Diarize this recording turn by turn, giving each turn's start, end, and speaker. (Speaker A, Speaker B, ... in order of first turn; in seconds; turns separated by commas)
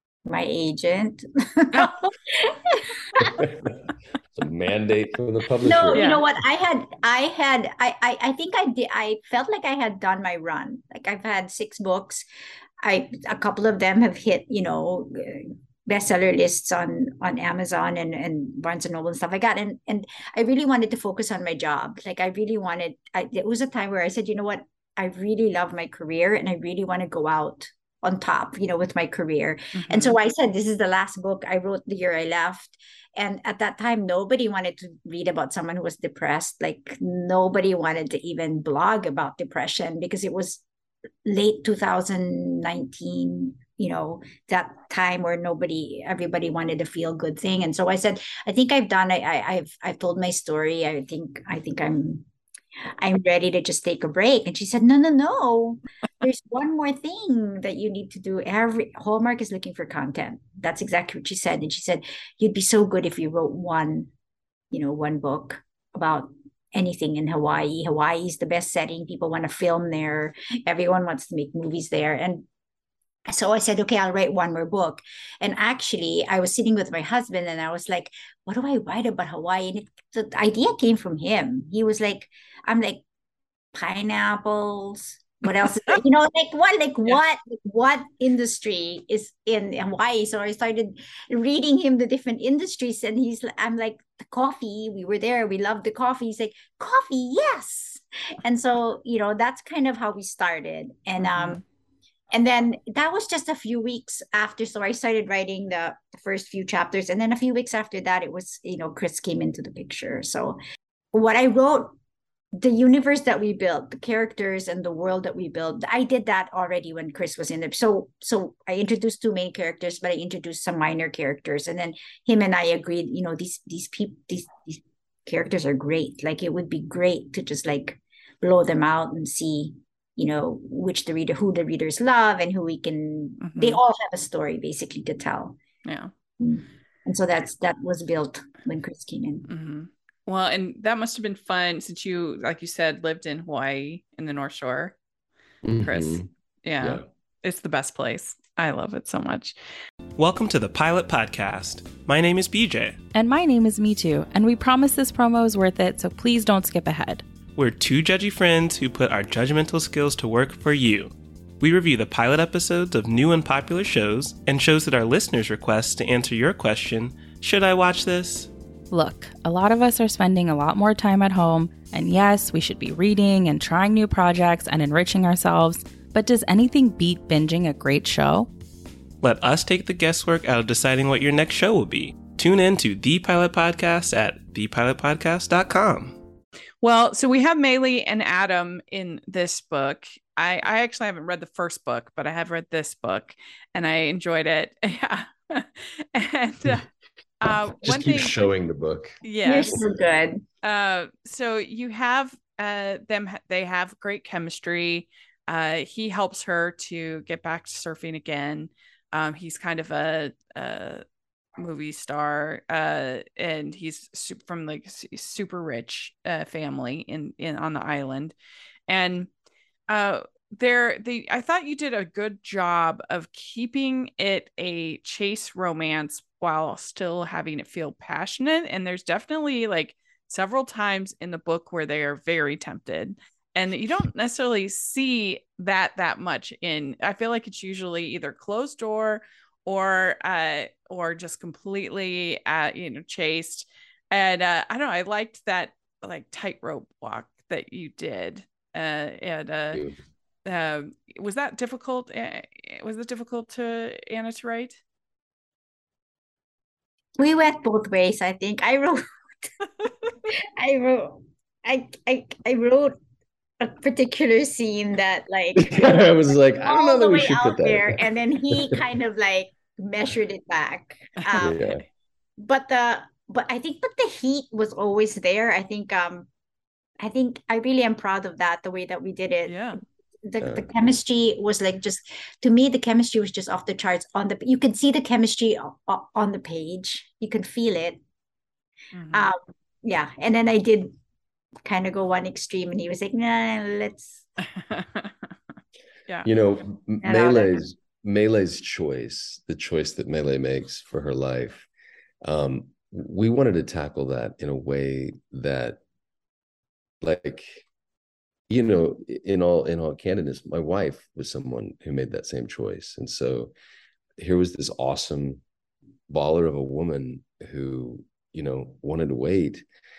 Speaker A: 0.2-2.8, Speaker B: 3.1-3.8, Speaker B: 4.3-6.2, Speaker A: 5.6-12.2, Speaker C: 5.9-6.2, Speaker A: 12.8-40.6, Speaker C: 29.8-30.1, Speaker A: 41.2-52.2, Speaker A: 53.0-64.1, Speaker A: 64.7-72.5, Speaker A: 73.3-83.0, Speaker A: 83.7-101.6, Speaker C: 101.2-101.6, Speaker A: 102.3-110.6, Speaker A: 111.1-111.9, Speaker A: 112.5-135.6, Speaker C: 133.4-133.8, Speaker C: 135.8-136.1, Speaker A: 136.4-139.5, Speaker C: 139.5-144.9, Speaker B: 145.6-146.3, Speaker C: 145.8-149.5, Speaker B: 146.8-147.0, Speaker D: 150.2-153.0, Speaker E: 153.1-157.2, Speaker D: 157.5-168.5, Speaker E: 168.9-178.5, Speaker D: 179.2-186.2, Speaker C: 186.8-196.9, Speaker C: 197.4-198.4, Speaker B: 197.8-199.7, Speaker C: 199.2-199.8, Speaker A: 199.4-200.4, Speaker C: 200.6-211.0, Speaker C: 211.6-218.3, Speaker C: 218.9-219.3, Speaker C: 219.9-249.8, Speaker B: 249.7-250.0, Speaker C: 250.4-254.8, Speaker A: 257.2-259.0, Speaker A: 260.3-262.9, Speaker A: 263.6-271.6, Speaker B: 265.5-268.8, Speaker C: 271.2-271.5, Speaker B: 271.4-271.8, Speaker A: 272.4-276.3, Speaker A: 277.0-279.6, Speaker C: 279.5-279.8, Speaker A: 280.2-288.0, Speaker B: 280.4-280.7, Speaker C: 288.9-289.3, Speaker A: 289.1-290.9, Speaker A: 291.6-294.2, Speaker C: 294.4-295.1, Speaker B: 296.2-301.7, Speaker A: 297.0-297.6, Speaker B: 302.2-305.8, Speaker B: 307.0-307.6, Speaker B: 308.5-313.5, Speaker B: 314.2-315.4, Speaker B: 316.1-319.6